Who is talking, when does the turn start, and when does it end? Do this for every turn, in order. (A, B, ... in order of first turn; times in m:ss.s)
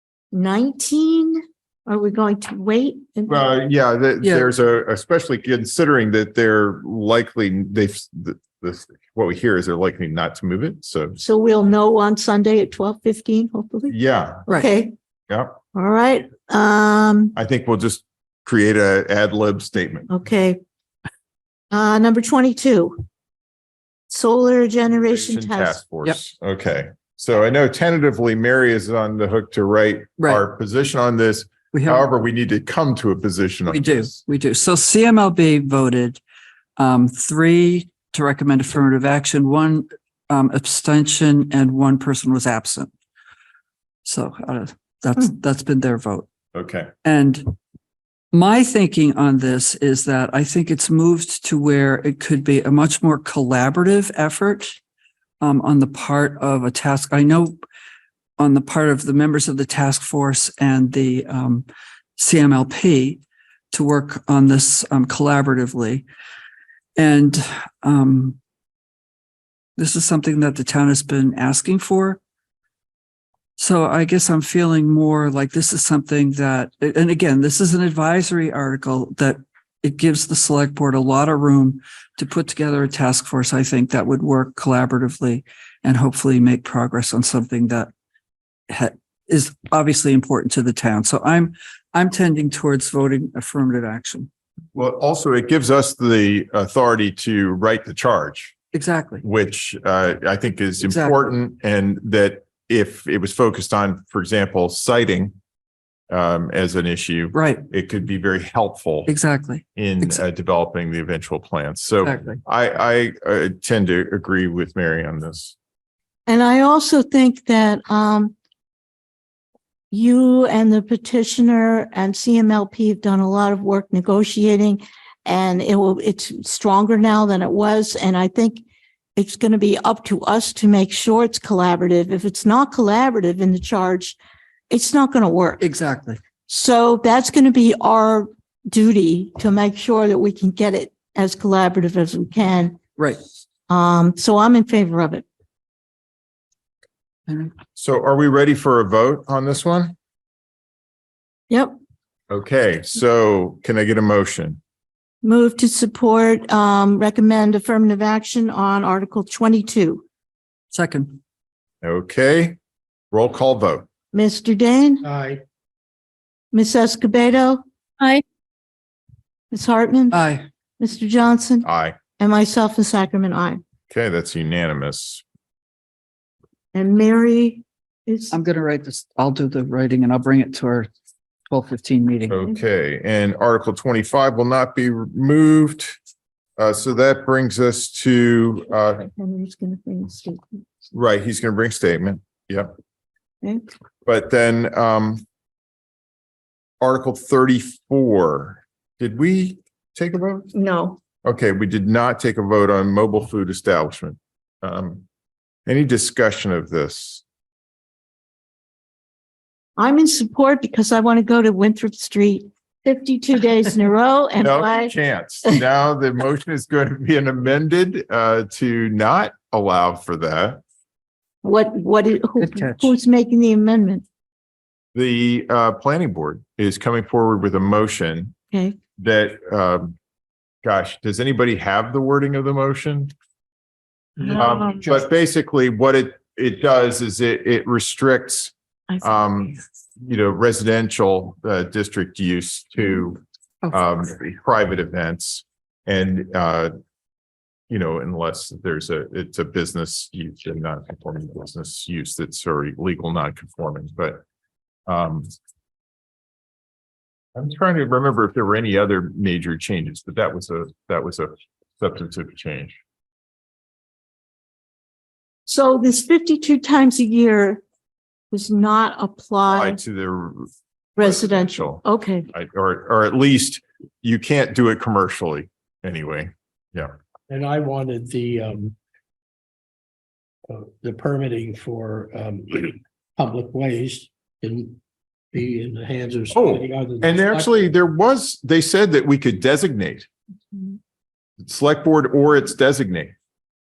0:00.3-0:03.5 A
0:03.2-0:11.2 B
0:04.2-0:04.5 C
0:11.2-0:14.0 A
0:13.9-0:14.5 B
0:14.5-0:14.9 A
0:15.3-0:15.6 B
0:15.7-0:17.4 A
0:17.4-0:20.1 B
0:20.1-0:20.6 A
0:21.7-0:23.0 A
0:24.1-0:25.8 A
0:25.0-0:34.2 B
0:31.7-0:32.1 C
0:33.7-0:36.2 C
0:36.8-0:42.9 C
0:44.0-0:46.3 C
0:46.5-0:46.9 B
0:47.0-0:47.5 C
0:48.3-0:54.8 C
0:55.4-0:57.6 C
0:58.4-1:01.6 C
1:02.2-1:03.2 C
1:03.7-1:06.0 C
1:07.0-1:08.4 C
1:09.8-1:12.2 C
1:13.6-1:27.9 C
1:28.7-1:34.3 C
1:34.7-1:38.5 B
1:38.7-1:39.2 C
1:39.2-1:45.3 B
1:40.8-1:41.2 C
1:46.1-1:49.1 B
1:47.3-1:47.6 C
1:49.1-1:50.2 C
1:49.8-1:55.5 B
1:52.0-1:52.4 C
1:56.3-1:58.3 A
1:59.9-2:08.6 A
2:09.2-2:14.2 A
2:14.7-2:15.6 A
2:15.6-2:16.2 C
2:16.5-2:22.8 A
2:23.7-2:25.2 A
2:27.3-2:27.5 C
2:27.8-2:29.9 B
2:31.5-2:31.8 A
2:32.3-2:34.6 B
2:35.2-2:40.0 A
2:40.7-2:41.2 C
2:41.8-2:42.6 B
2:43.1-2:43.8 B
2:44.1-2:45.0 A
2:45.0-2:45.4 D
2:46.5-2:47.6 A
2:49.5-2:50.2 A
2:50.1-2:50.4 C
2:50.8-2:51.7 A
2:51.6-2:52.0 B
2:52.2-2:53.6 A
2:53.9-2:55.2 B
2:56.7-2:58.4 A
2:58.3-3:00.9 C
3:01.5-3:02.4 C
3:02.3-3:06.0 B
3:06.6-3:09.0 B
3:08.9-3:10.6 A
3:10.9-3:12.7 B
3:14.0-3:15.2 B
3:16.8-3:20.5 B
3:20.5-3:21.0 A
3:21.2-3:25.0 B
3:25.6-3:27.2 B
3:29.8-3:34.9 A
3:34.4-3:40.6 B
3:41.4-3:44.0 A
3:42.4-3:42.9 C
3:44.9-3:48.3 B
3:49.0-3:49.9 B
3:50.6-3:53.1 B
3:54.2-3:54.8 D
3:54.4-4:03.2 B
3:58.9-3:59.3 A
4:03.7-4:06.7 B
4:07.7-4:14.2 B
4:14.9-4:15.3 B
4:17.3-4:22.8 B
4:25.4-4:27.6 A
4:28.3-4:29.8 A
4:29.5-4:36.9 B
4:31.0-4:32.3 A
4:37.3-4:38.7 D
4:40.5-4:44.8 D
4:45.3-4:47.7 D
4:46.3-4:50.1 B
4:51.4-4:53.1 B